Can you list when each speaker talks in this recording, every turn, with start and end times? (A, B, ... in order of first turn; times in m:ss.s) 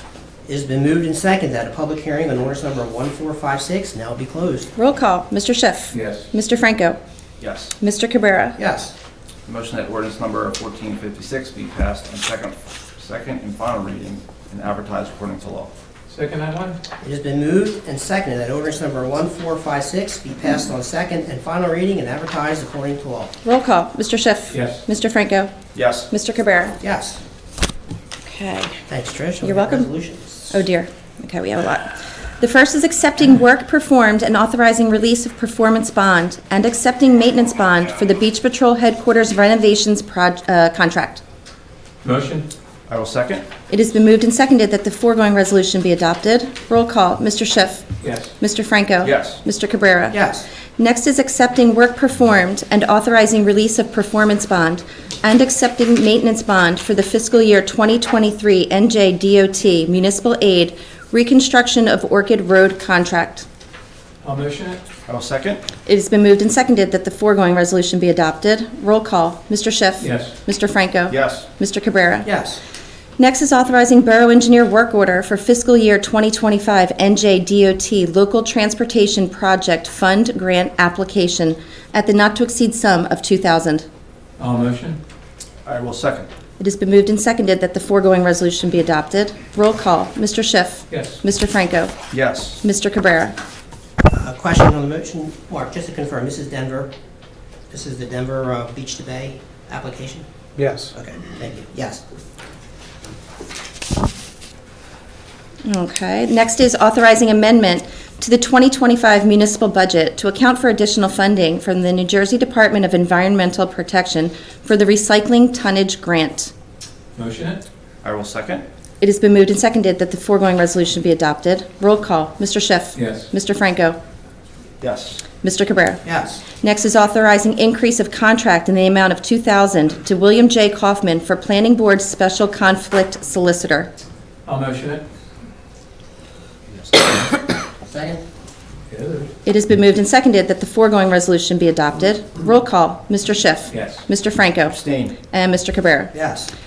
0:00.4-0:04.7 A
0:04.8-0:07.0 B
0:05.9-0:06.3 C
0:07.4-0:07.7 D
0:07.8-0:08.6 B
0:08.6-0:08.9 A
0:09.4-0:15.7 D
0:16.1-0:16.8 C
0:17.0-0:23.3 A
0:23.4-0:25.5 B
0:24.5-0:24.8 C
0:25.7-0:26.1 D
0:26.1-0:26.8 B
0:26.8-0:27.2 A
0:28.2-0:28.8 B
0:28.9-0:30.6 A
0:29.4-0:29.9 B
0:30.5-0:41.2 B
0:42.0-0:42.5 C
0:42.9-0:43.4 D
0:43.7-1:03.4 B
0:48.0-0:48.3 C
0:49.0-0:49.4 D
0:50.1-0:50.4 A
1:04.2-1:04.8 C
1:05.1-1:05.6 D
1:05.8-1:12.3 B
1:10.0-1:10.3 C
1:11.1-1:11.5 D
1:12.2-1:12.6 A
1:13.2-1:23.8 B
1:24.4-1:25.0 C
1:25.6-1:26.3 D
1:26.6-1:32.0 B
1:30.9-1:31.2 C
1:32.1-1:32.6 D
1:32.6-1:33.3 B
1:34.1-1:36.9 A
1:37.7-1:40.3 A
1:40.6-1:40.9 C
1:40.9-1:42.0 A
1:45.6-1:56.5 B
1:57.2-1:57.6 C
1:58.0-1:58.6 D
1:59.0-2:04.0 B
2:02.9-2:03.3 C
2:04.8-2:05.2 D
2:05.4-2:13.9 B
2:06.0-2:06.4 A
2:14.4-2:15.0 C
2:17.8-2:18.2 A
2:18.9-2:19.3 C
2:19.4-2:26.1 B
2:23.7-2:24.0 C
2:24.7-2:25.1 D
2:26.1-2:26.5 A